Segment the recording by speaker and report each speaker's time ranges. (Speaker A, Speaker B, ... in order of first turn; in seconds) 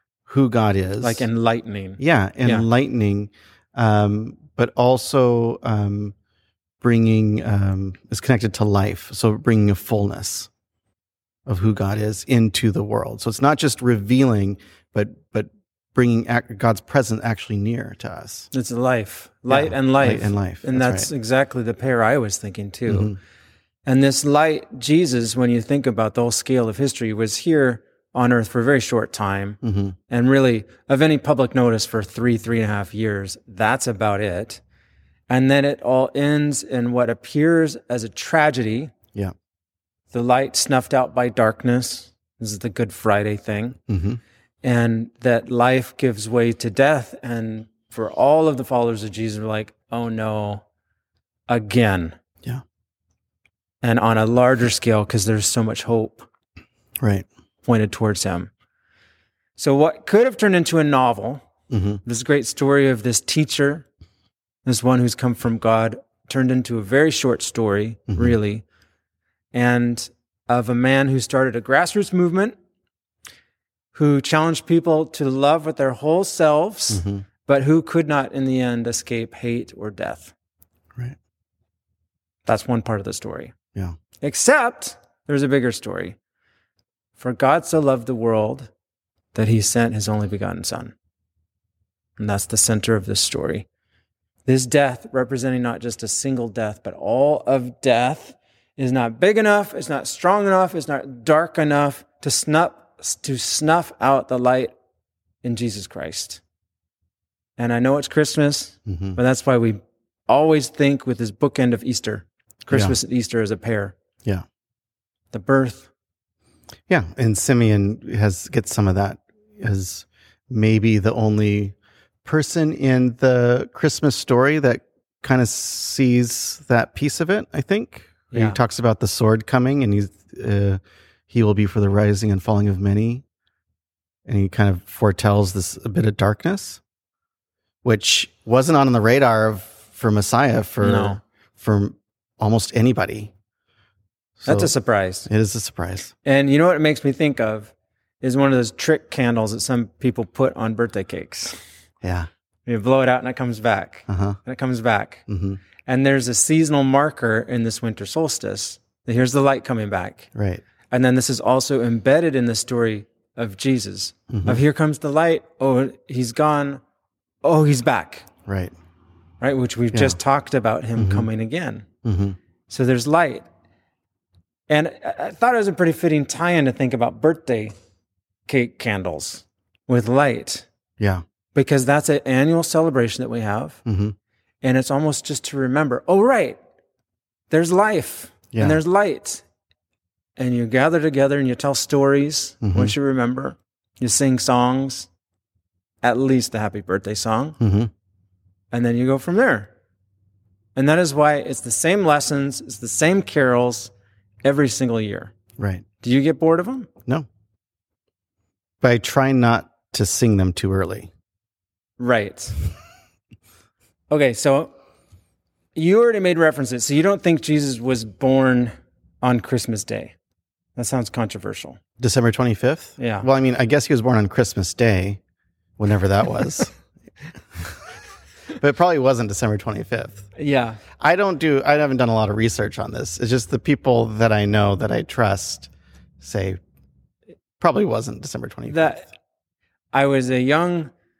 Speaker A: 0.3-1.3, 2.0-6.1, 6.8-10.5, 11.5-18.5, 19.5-21.1, 22.9-23.2, 29.6-30.0, 43.9-44.2, 57.0-57.3, 61.7-62.0, 68.1-68.4, 76.9-77.2, 108.9-109.2, 116.9-133.2, 134.3-136.8, 137.8-143.3, 144.4-144.7, 145.3-146.1, 152.0-152.3, 154.1-154.4, 155.3-155.6, 160.3-160.6, 164.3-164.6, 168.5-168.7, 169.9-170.2, 171.0-171.3, 172.0-172.4, 183.9-184.2, 188.5-188.8, 192.6-192.9, 197.6-197.9, 205.6-205.8, 208.8-211.1, 222.0-225.2, 225.8-226.7, 228.6-230.2, 231.0-235.7, 236.2-236.6, 237.6-239.0
Speaker B: 1.0-2.7, 18.5-23.1, 23.9-34.6, 35.3-38.9, 40.1-43.8, 44.6-50.6, 51.5-52.2, 53.8-56.3, 57.6-58.5, 59.6-61.4, 62.0-63.9, 64.7-68.7, 69.5-72.5, 73.9-80.3, 82.5-83.5, 84.2-86.2, 87.2-88.7, 89.3-90.9, 92.2-93.7, 94.5-104.7, 105.4-106.4, 107.6-113.9, 115.3-115.9, 128.3-128.6, 140.8-141.2, 144.5-145.3, 146.2-151.6, 152.7-155.2, 155.8-160.3, 160.9-166.8, 167.4-168.3, 169.4-171.9, 172.7-173.4, 174.7-177.7, 178.5-180.7, 181.5-183.8, 184.6-186.6, 187.5-189.4, 190.4-195.1, 196.0-197.6, 198.7-199.7, 200.8-203.9, 204.4-205.3, 206.0-206.9, 212.0-212.6, 214.1-214.7, 215.8-220.1, 220.8-221.8, 223.0-223.3, 230.4-230.8, 238.7-239.1, 239.9-240.9